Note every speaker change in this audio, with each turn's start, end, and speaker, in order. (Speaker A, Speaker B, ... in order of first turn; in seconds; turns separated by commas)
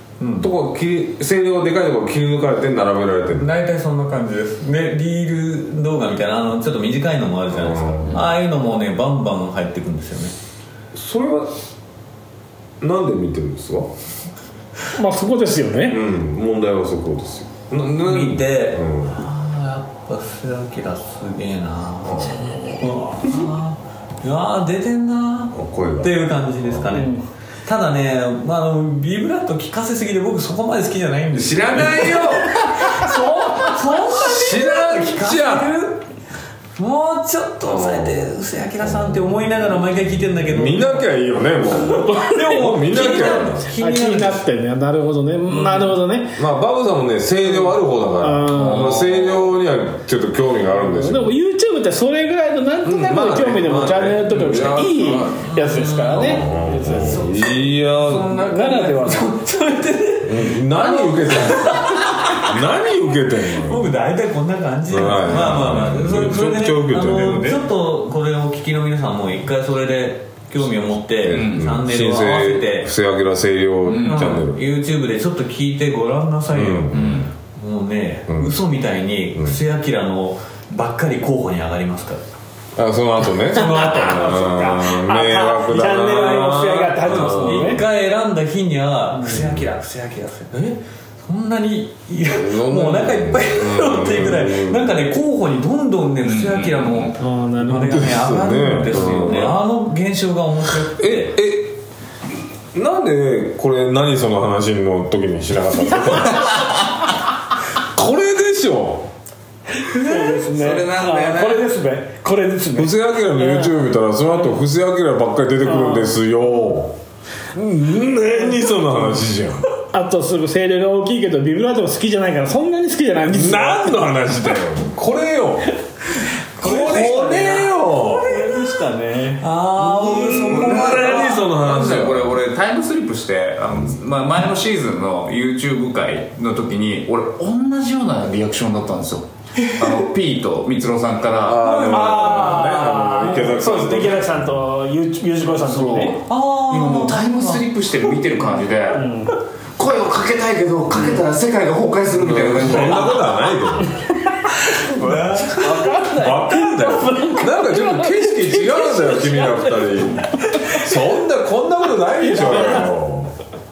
Speaker A: 0.2-0.5, Speaker B: 0.4-3.5, Speaker A: 3.3-10.3, Speaker B: 7.5-8.3, Speaker B: 10.9-11.5, Speaker B: 12.8-13.9, Speaker C: 15.0-16.0, Speaker B: 15.9-19.2, Speaker A: 18.0-27.1, Speaker B: 22.0-22.9, Speaker B: 25.5-26.9, Speaker C: 26.9-27.2, Speaker A: 27.7-36.0, Speaker B: 31.4-35.8, Speaker C: 33.1-33.5, Speaker A: 36.8-41.1, Speaker B: 37.6-39.5, Speaker B: 40.5-43.8, Speaker A: 41.8-44.4, Speaker C: 43.8-46.4, Speaker A: 45.5-46.0, Speaker B: 46.3-51.4, Speaker C: 48.2-49.0, Speaker D: 48.5-49.5, Speaker C: 50.8-57.3, Speaker B: 52.8-55.5, Speaker A: 55.4-62.6, Speaker B: 56.1-58.4, Speaker C: 58.4-59.3, Speaker B: 60.2-63.9, Speaker A: 63.5-72.9, Speaker B: 64.9-67.6, Speaker D: 65.3-65.7, Speaker B: 71.2-74.6, Speaker D: 71.3-71.6, Speaker D: 73.8-74.5, Speaker A: 74.0-82.2, Speaker B: 76.5-77.3, Speaker D: 76.9-77.3, Speaker B: 78.3-78.6, Speaker B: 82.8-87.8, Speaker C: 83.5-87.8, Speaker A: 87.1-101.4, Speaker B: 89.4-89.7, Speaker B: 92.3-95.0, Speaker D: 96.2-97.2, Speaker C: 97.2-98.1, Speaker B: 97.8-99.6, Speaker D: 98.9-99.6, Speaker B: 101.0-101.8, Speaker B: 102.7-106.7, Speaker B: 107.8-109.1, Speaker C: 109.8-114.6, Speaker D: 110.0-111.7, Speaker B: 112.8-117.0, Speaker C: 115.6-116.2, Speaker B: 117.5-119.7, Speaker C: 119.9-124.0, Speaker B: 123.2-125.7, Speaker B: 126.6-128.3, Speaker C: 126.6-129.4, Speaker A: 126.6-128.6, Speaker A: 129.4-131.4, Speaker B: 129.8-132.4, Speaker D: 130.4-139.3, Speaker D: 139.8-141.8, Speaker B: 141.4-144.6, Speaker A: 141.6-142.7, Speaker C: 141.6-146.2, Speaker D: 145.6-149.1, Speaker A: 146.3-147.7, Speaker C: 148.9-149.3, Speaker D: 149.8-153.3, Speaker B: 152.1-154.0, Speaker A: 152.6-153.0, Speaker C: 154.2-160.0, Speaker A: 154.7-156.0, Speaker B: 156.1-163.3, Speaker C: 160.5-160.8, Speaker C: 162.3-162.9